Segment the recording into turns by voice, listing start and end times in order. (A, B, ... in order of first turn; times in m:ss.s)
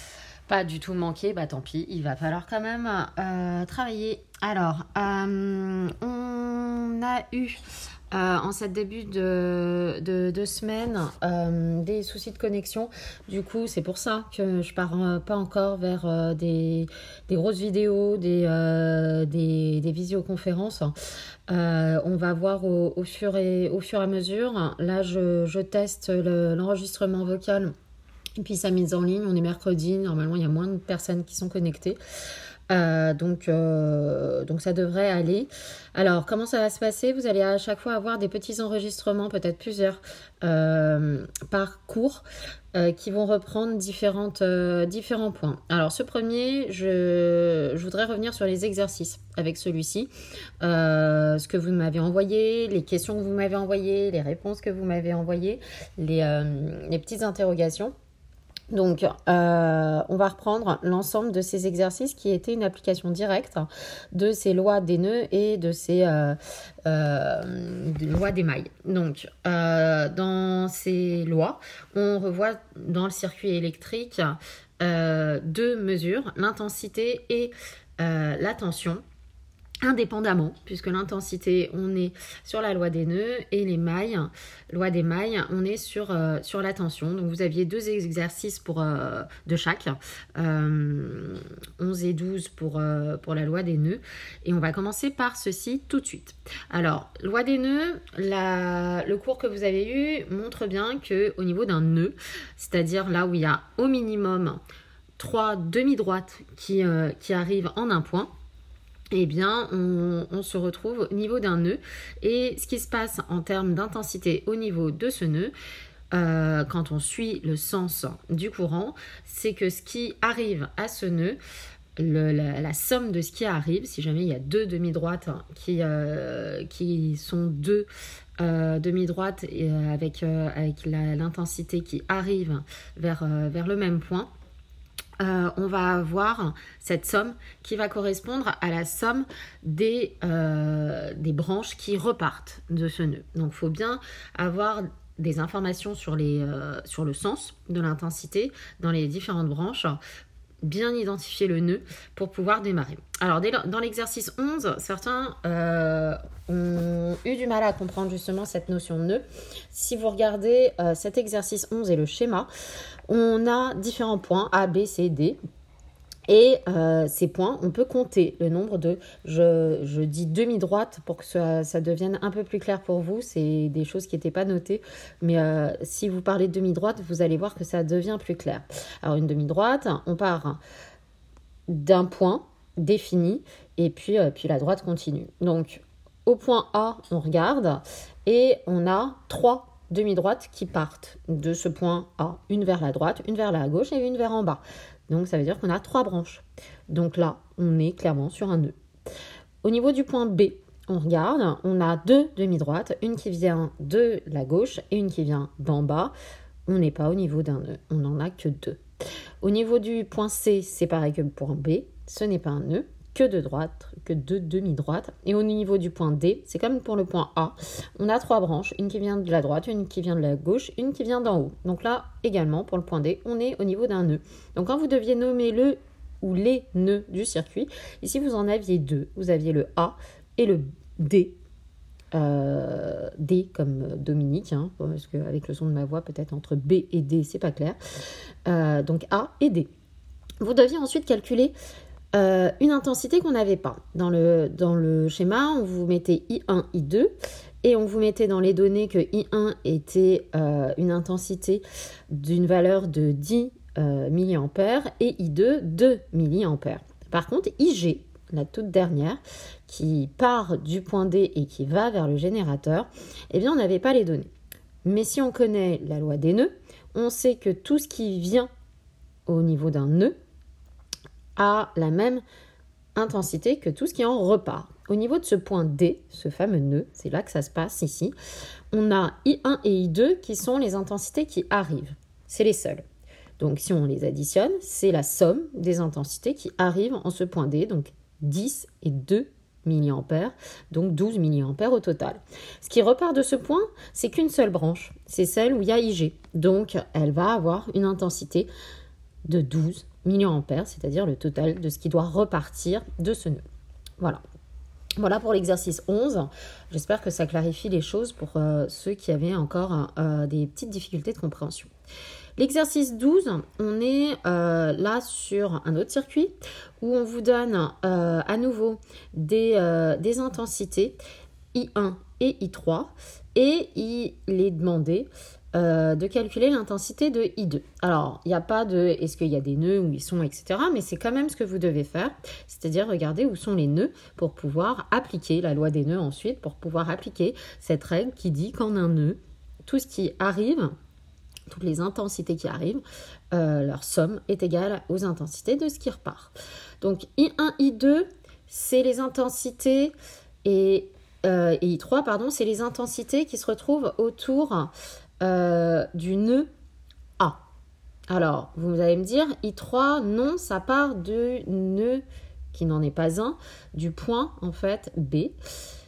0:00.5-0:20.9 A
0:21.5-0:27.7 A
0:28.4-0:32.0 A
0:32.7-0:50.1 A
0:50.6-0:57.9 A
0:58.7-1:19.0 A
1:19.8-1:44.6 A
1:45.2-1:48.3 A
1:49.1-1:55.5 A
1:56.1-2:01.4 A
2:02.0-2:07.9 A
2:08.4-2:14.3 A
2:15.2-2:30.0 A
2:30.6-2:42.5 A
2:43.1-2:45.4 A
2:46.3-3:00.6 A
3:01.7-3:18.7 A
3:19.6-3:26.1 A
3:26.7-3:28.8 A
3:29.4-3:51.4 A
3:52.1-3:57.8 A
3:58.5-3:59.7 A
4:00.4-4:01.5 A
4:02.1-4:07.1 A
4:07.6-4:24.3 A
4:24.8-4:28.5 A
4:29.3-4:30.2 A
4:31.4-4:32.2 A
4:33.0-4:38.1 A
4:38.7-4:42.8 A
4:43.4-4:58.5 A
4:59.2-5:03.4 A
5:05.0-5:11.7 A
5:12.4-5:21.0 A
5:21.5-5:40.7 A
5:41.5-5:56.5 A
5:58.1-6:05.4 A